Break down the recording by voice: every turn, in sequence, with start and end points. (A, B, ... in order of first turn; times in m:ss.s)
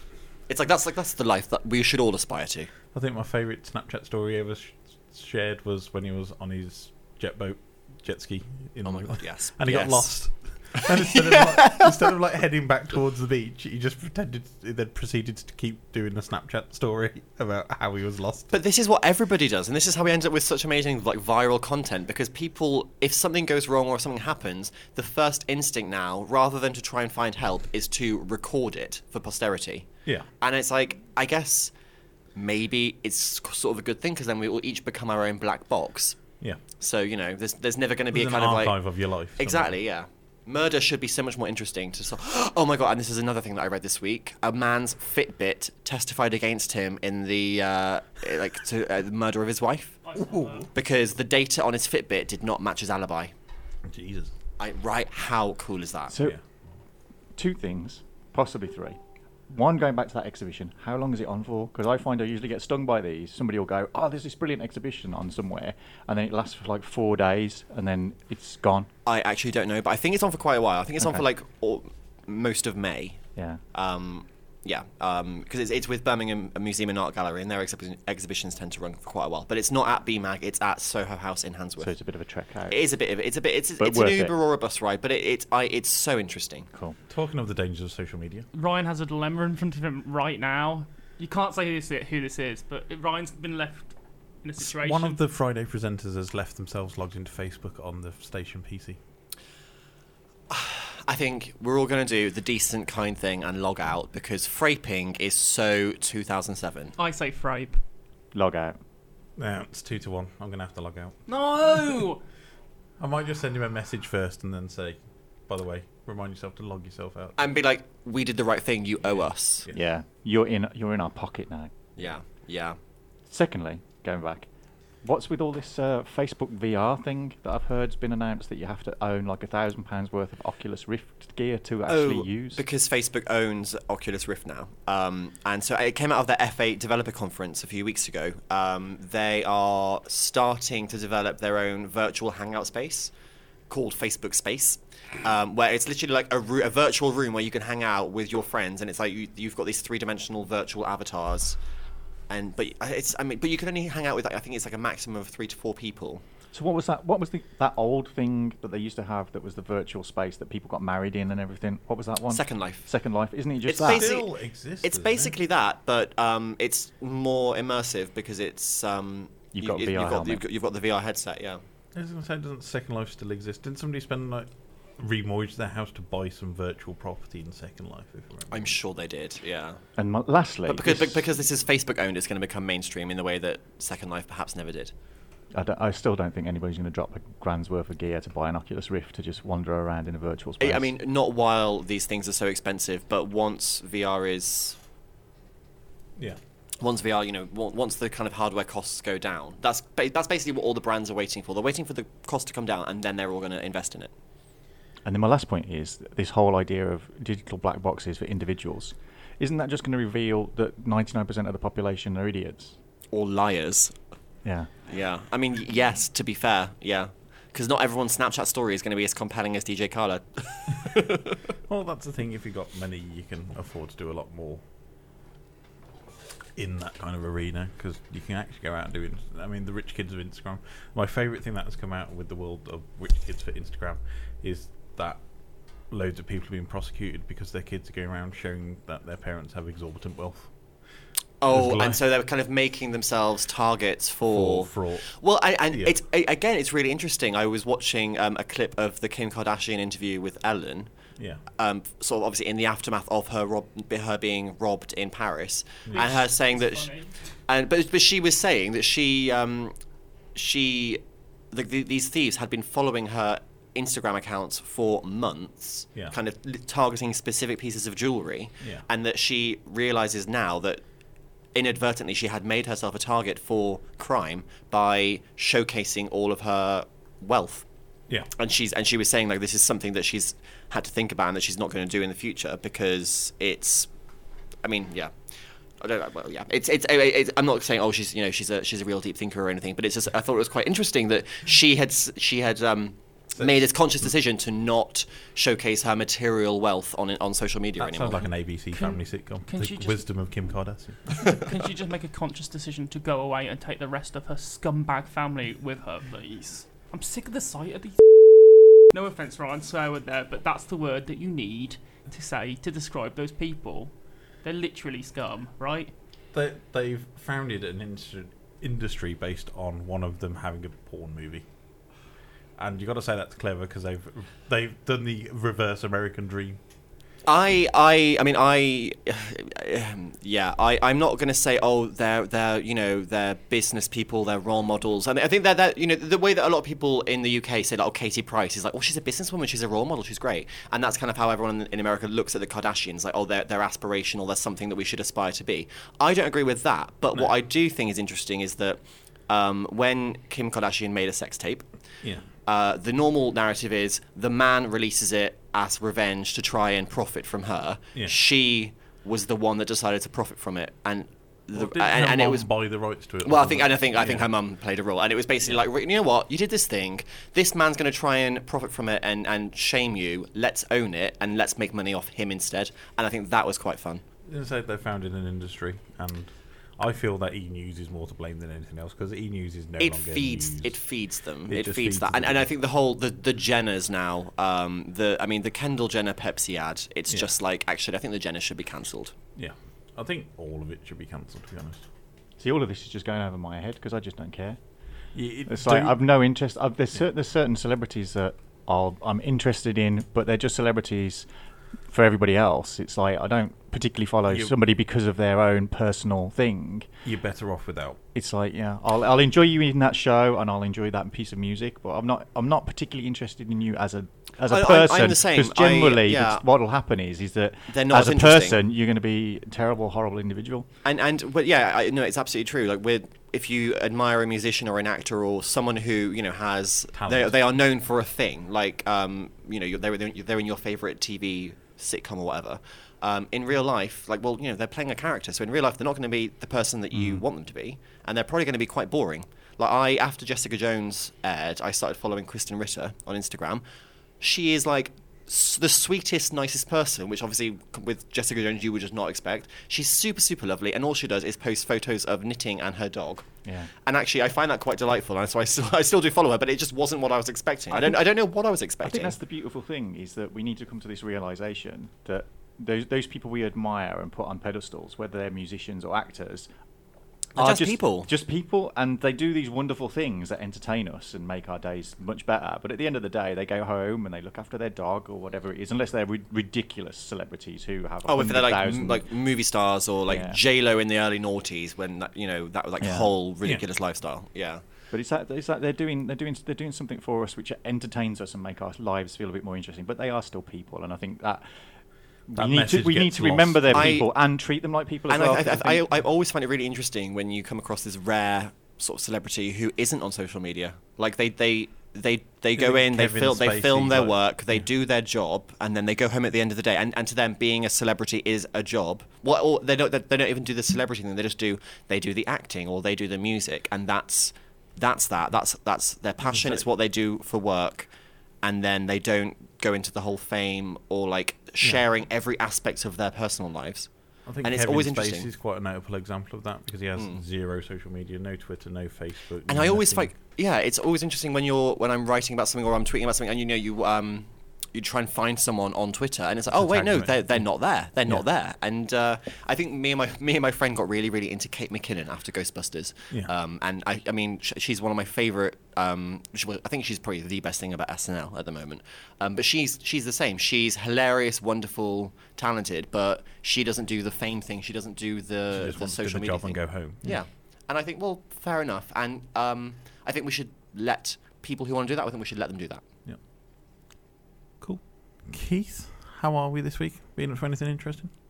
0:00.5-0:02.7 A
0:02.9-0:18.6 B
0:08.8-0:10.1 A
0:11.1-0:11.7 A
0:18.5-0:29.9 A
0:30.4-0:31.7 A
0:32.4-0:36.2 A
0:36.8-0:38.8 A
0:38.1-0:39.8 B
0:39.4-0:50.0 A
0:50.0-0:50.7 C
0:50.2-0:50.7 B
0:50.7-0:53.3 A
0:53.8-0:54.3 B
0:54.6-0:56.1 A
0:56.1-0:56.4 D
0:57.4-0:59.0 D
0:59.5-1:08.9 D
1:09.1-1:21.9 A
1:11.0-1:11.2 D
1:13.4-1:13.6 D
1:21.8-1:22.8 D
1:22.7-1:26.7 A
1:23.8-1:24.4 D
1:26.7-1:27.0 D
1:27.1-1:28.4 B
1:28.5-1:35.2 C
1:34.6-1:39.0 B
1:40.5-1:46.9 A
1:47.0-1:47.8 C
1:48.3-1:48.8 D
1:49.4-1:51.1 B
1:51.3-1:52.2 C
1:53.0-1:57.4 B
1:57.4-1:59.7 A
1:59.7-2:01.7 D
2:02.0-2:02.8 A
2:03.3-2:04.5 D
2:05.0-2:12.6 D
2:11.9-2:23.1 A
2:23.7-2:31.6 A
2:32.3-2:36.2 A
2:36.5-2:44.1 D
2:42.3-2:42.9 A
2:43.6-2:51.6 A
2:43.8-2:45.4 B
2:49.5-2:50.4 D
2:51.9-2:58.8 B
2:58.5-2:59.8 A
3:00.0-3:01.2 D
3:00.6-3:04.9 A
3:05.5-3:10.9 D
3:10.6-3:14.8 A
3:16.8-3:24.1 A
3:25.0-3:32.8 D
3:33.1-3:34.0 A
3:34.4-3:34.7 D
3:34.9-3:41.4 A
3:41.7-3:44.6 B
3:46.6-3:55.2 B
3:55.9-4:00.5 B
4:01.4-4:10.9 A
4:01.5-4:02.0 B
4:04.3-4:05.1 B
4:05.7-4:06.0 B
4:11.6-4:16.9 A
4:15.9-4:17.2 C
4:17.5-4:19.8 A
4:20.4-4:30.8 A
4:31.5-4:37.6 A
4:38.4-4:43.9 A
4:44.6-4:45.1 A
4:45.8-4:58.2 A
4:57.8-5:01.2 B
4:58.8-5:00.1 C
5:01.2-5:08.0 C
5:08.9-5:13.9 C
5:14.4-5:15.9 C
5:16.3-5:21.4 B
5:22.6-5:26.6 B
5:27.2-5:51.7 A
5:52.4-6:02.5 A
6:01.5-6:04.3 B
6:03.2-6:14.0 A
6:14.2-6:20.8 B
6:19.8-6:29.1 A
6:21.5-6:22.5 B
6:29.4-6:31.8 B
6:32.4-6:34.6 D
6:35.1-6:36.0 B
6:35.5-6:41.2 D
6:41.9-6:46.9 D
6:44.3-6:44.5 B
6:47.0-6:48.0 B
6:48.1-7:00.6 D
6:54.5-6:56.4 A
6:57.7-6:58.6 A
7:00.8-7:23.6 A
7:07.0-7:07.3 B
7:16.9-7:17.2 B
7:24.2-7:33.3 A
7:33.4-7:33.7 D
7:33.8-7:39.2 A
7:37.7-7:38.0 D
7:38.8-7:46.5 D
7:47.4-7:59.0 D
7:47.4-7:48.1 A
7:58.0-8:04.6 A
8:00.1-8:00.4 D
8:02.8-8:03.1 D
8:04.9-8:11.4 D
8:12.3-8:15.8 D
8:12.4-8:14.0 B
8:13.7-8:14.1 A
8:15.1-8:37.9 A
8:22.5-8:24.6 B
8:36.2-8:36.6 B
8:38.4-8:43.9 A
8:44.2-8:50.1 B
8:44.4-8:45.3 A
8:49.5-9:22.8 A
8:56.5-8:57.5 B
9:15.5-9:17.2 B
9:24.6-9:28.1 B